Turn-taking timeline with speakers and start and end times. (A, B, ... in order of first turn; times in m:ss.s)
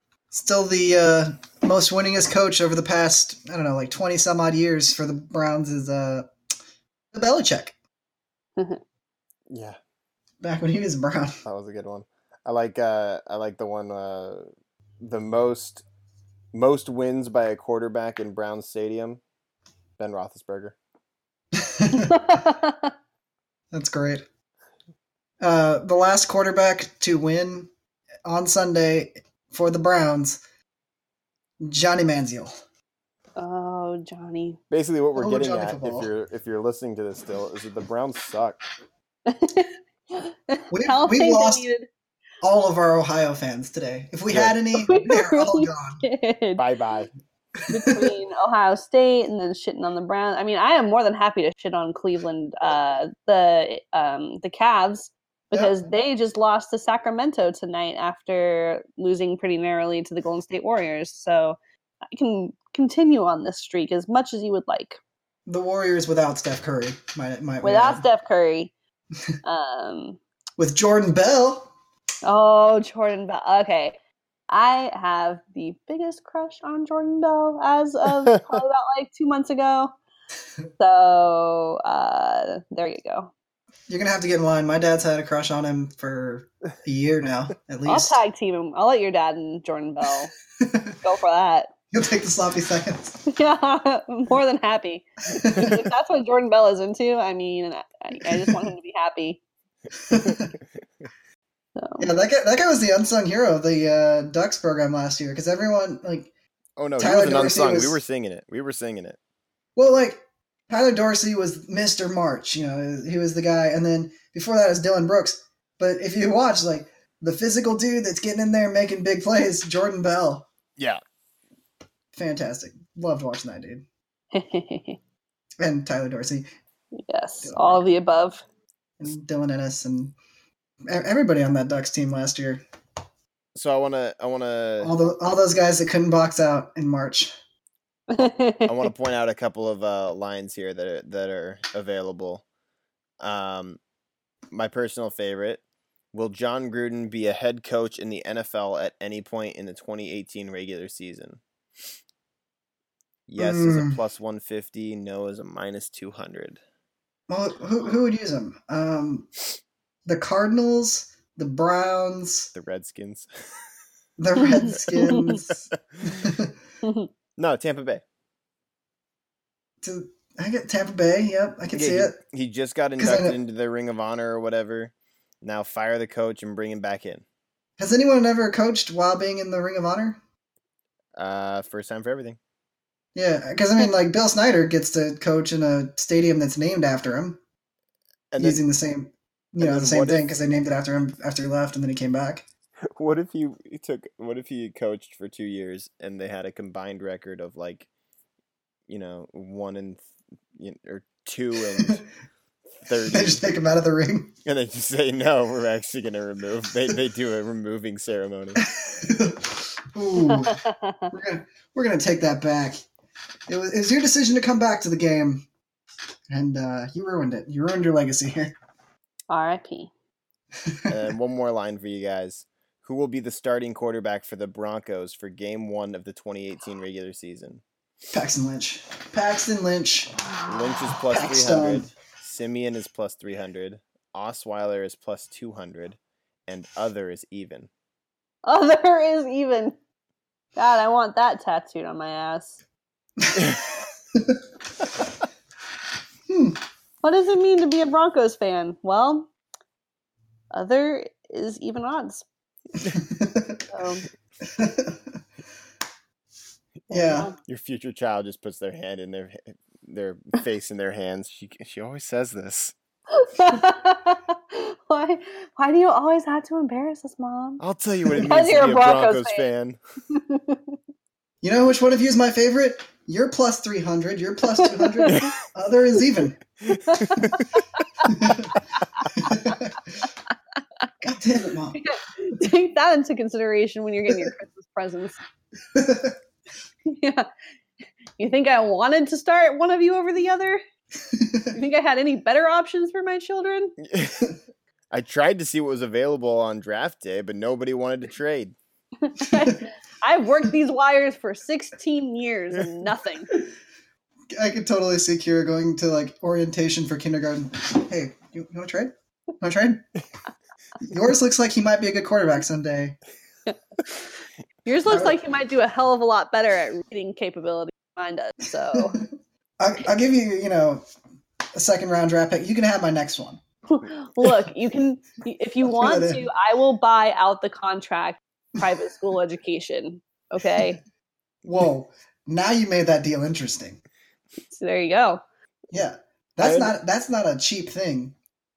0:00.3-0:06.3 A
0:07.1-0:07.8 A
0:09.5-0:09.8 B
0:10.4-0:11.4 A
0:11.4-0:14.5 B
0:15.0-0:15.8 B
0:16.5-0:19.2 B
0:20.0-0:20.8 B
0:21.6-0:22.4 A
0:22.1-0:22.9 C
0:23.7-0:24.2 A
0:25.4-0:27.7 A
0:28.2-0:30.4 A
0:31.6-0:32.5 A
0:33.4-0:34.6 C
0:34.7-0:38.6 B
0:35.2-0:36.1 A
0:39.3-0:41.9 C
0:40.7-0:41.6 A
0:42.4-0:46.0 A
0:44.3-0:44.6 B
0:44.8-0:46.6 C
0:46.6-0:47.1 B
0:47.7-1:01.6 C
0:47.8-0:48.2 A
0:55.5-0:55.8 A
1:02.1-1:05.0 C
1:05.5-1:08.1 A
1:07.6-1:08.7 C
1:09.4-1:10.2 C
1:10.6-1:11.7 A
1:12.2-1:14.0 C
1:14.5-1:19.9 C
1:20.8-1:23.3 C
1:23.9-1:28.2 A
1:27.9-1:30.3 C
1:30.6-1:30.9 A
1:31.0-1:31.7 C
1:31.9-1:33.2 A
1:33.3-1:39.4 C
1:35.3-1:35.9 A
1:40.1-1:40.5 A
1:40.1-1:41.1 B
1:41.8-1:42.1 C
1:42.0-1:46.3 A
1:46.8-1:49.2 B
1:47.0-1:48.0 A
1:49.8-2:00.5 A
2:02.1-2:03.8 A
2:04.3-2:05.0 C
2:05.6-2:06.5 A
2:06.9-2:08.4 C
2:07.4-2:07.8 A
2:09.0-2:10.2 A
2:10.9-2:12.6 A
2:13.5-2:14.9 B
2:14.8-2:17.3 A
2:18.1-2:18.7 C
2:18.2-2:22.4 B
2:23.2-2:23.8 B
2:24.5-2:25.6 B
2:26.1-2:31.4 B
2:33.3-2:36.6 B
2:33.4-2:34.0 A
2:37.3-2:39.3 A
2:40.1-2:42.5 A
2:42.5-2:43.3 B
2:44.2-2:46.5 A
2:44.5-2:45.4 C
2:46.8-2:47.1 C
2:47.4-2:48.0 B
2:49.8-2:52.1 A
2:51.7-2:57.2 B
2:53.0-2:53.4 A
2:57.8-3:00.2 A
3:01.2-3:02.4 B
3:03.2-3:07.4 A
3:08.3-3:08.6 B
3:08.4-3:12.4 A
3:09.6-3:10.3 B
3:13.0-3:17.9 B
3:18.9-3:22.0 B
3:22.9-3:23.4 B
3:23.1-3:24.3 A
3:24.4-3:28.6 B
3:28.6-3:32.8 A
3:30.2-3:31.1 C
3:33.5-3:35.5 A
3:36.3-3:38.6 A
3:39.3-3:39.9 C
3:40.7-3:40.9 A
3:40.9-3:47.6 B
3:48.1-3:50.1 A
3:50.2-3:50.8 C
3:50.5-3:57.7 B
3:51.1-3:51.9 A
3:58.4-3:59.8 C
4:00.6-4:02.6 C
4:03.4-4:03.6 B
4:06.3-4:06.6 A
4:07.0-4:09.3 C
4:10.5-4:12.2 C
4:12.8-4:13.6 A
4:13.7-4:14.1 C
4:14.4-4:15.0 A
4:16.9-4:17.3 A
4:16.9-4:17.4 C
4:17.4-4:22.7 B
4:23.1-4:27.6 C
4:27.6-4:29.8 B
4:28.2-4:29.5 C
4:30.1-4:30.8 C
4:31.4-4:36.5 A
4:34.8-4:35.2 C
4:36.8-4:39.6 C
4:37.2-4:37.4 A
4:38.0-4:38.6 A
4:39.1-4:39.8 A
4:41.0-4:41.8 A
4:41.8-4:45.2 C
4:45.8-4:46.2 A
4:46.9-4:47.3 C
4:48.2-4:50.6 C
4:51.1-4:51.5 A
4:51.5-4:53.8 C
4:53.8-4:54.3 B
4:54.9-4:58.6 B
4:59.0-5:03.3 C
5:04.3-5:09.8 A
5:10.8-5:13.0 A
5:14.6-5:19.0 C
5:14.9-5:15.2 A
5:18.8-5:19.1 A
5:19.6-5:20.8 A
5:21.5-5:23.4 A
5:23.7-5:30.8 C
5:25.6-5:26.2 A
5:31.4-5:33.8 A
5:34.5-5:35.2 C
5:35.7-5:38.2 A
5:36.4-5:36.8 B